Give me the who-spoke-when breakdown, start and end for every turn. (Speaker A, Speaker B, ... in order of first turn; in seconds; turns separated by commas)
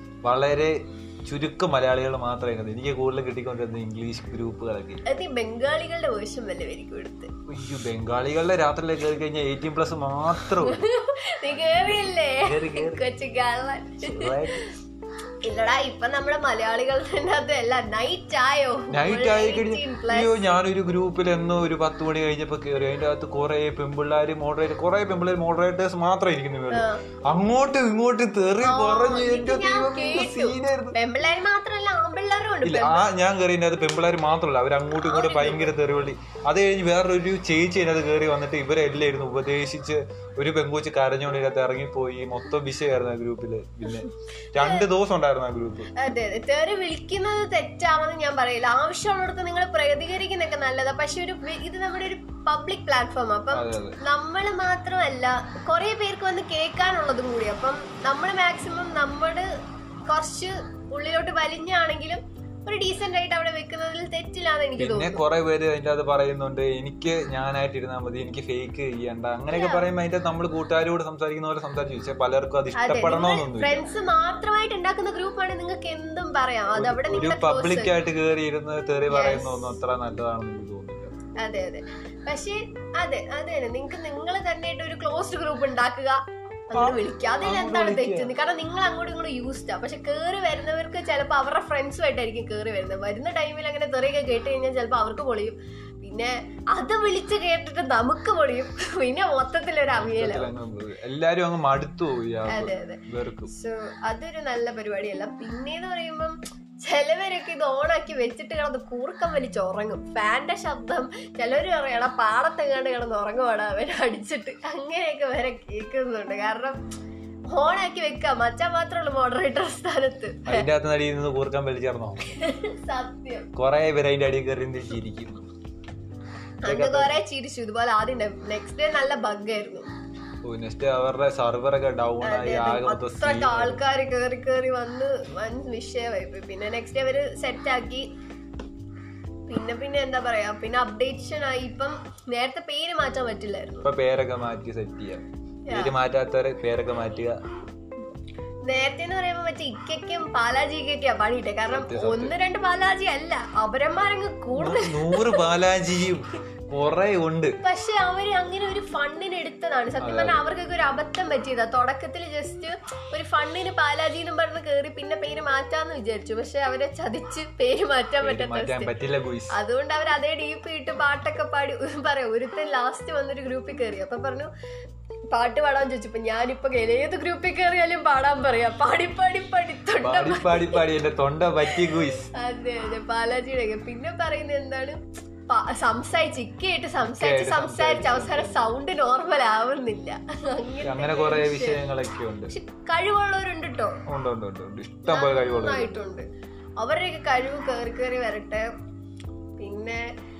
Speaker A: 0.2-5.0, Speaker B: 5.0-7.3, Speaker A: 7.5-10.9, Speaker B: 10.5-14.7, Speaker A: 11.5-13.1, Speaker A: 14.0-14.6, Speaker B: 15.4-20.4, Speaker A: 18.9-30.9, Speaker B: 26.7-27.1, Speaker B: 28.6-33.0, Speaker A: 32.6-45.9, Speaker B: 35.0-35.7, Speaker B: 44.6-44.9, Speaker B: 45.9-59.5, Speaker A: 53.5-54.0, Speaker B: 60.1-65.2, Speaker A: 64.8-73.8, Speaker B: 69.5-69.8, Speaker B: 72.7-78.0, Speaker A: 76.7-81.1, Speaker B: 79.1-79.7, Speaker B: 81.4-86.2, Speaker B: 86.7-100.5, Speaker A: 86.7-88.3, Speaker A: 100.0-103.5, Speaker B: 102.5-116.8, Speaker B: 117.5-120.7, Speaker A: 120.5-122.4, Speaker B: 122.3-123.5, Speaker A: 123.5-125.4, Speaker A: 126.6-127.2, Speaker B: 126.6-129.9, Speaker A: 130.4-133.8, Speaker B: 132.2-138.1, Speaker B: 139.5-143.9, Speaker A: 143.8-147.4, Speaker B: 145.7-146.0, Speaker B: 148.7-155.5, Speaker A: 151.7-152.4, Speaker A: 154.6-157.6, Speaker B: 157.6-168.9, Speaker A: 160.0-160.4, Speaker A: 168.2-169.6, Speaker B: 169.5-174.5, Speaker B: 175.3-180.8, Speaker A: 180.0-182.3, Speaker B: 181.7-191.9, Speaker A: 187.2-188.7, Speaker A: 190.8-192.5, Speaker B: 192.5-194.0, Speaker A: 194.1-195.9, Speaker B: 195.1-196.2, Speaker B: 196.8-198.7, Speaker B: 199.6-200.0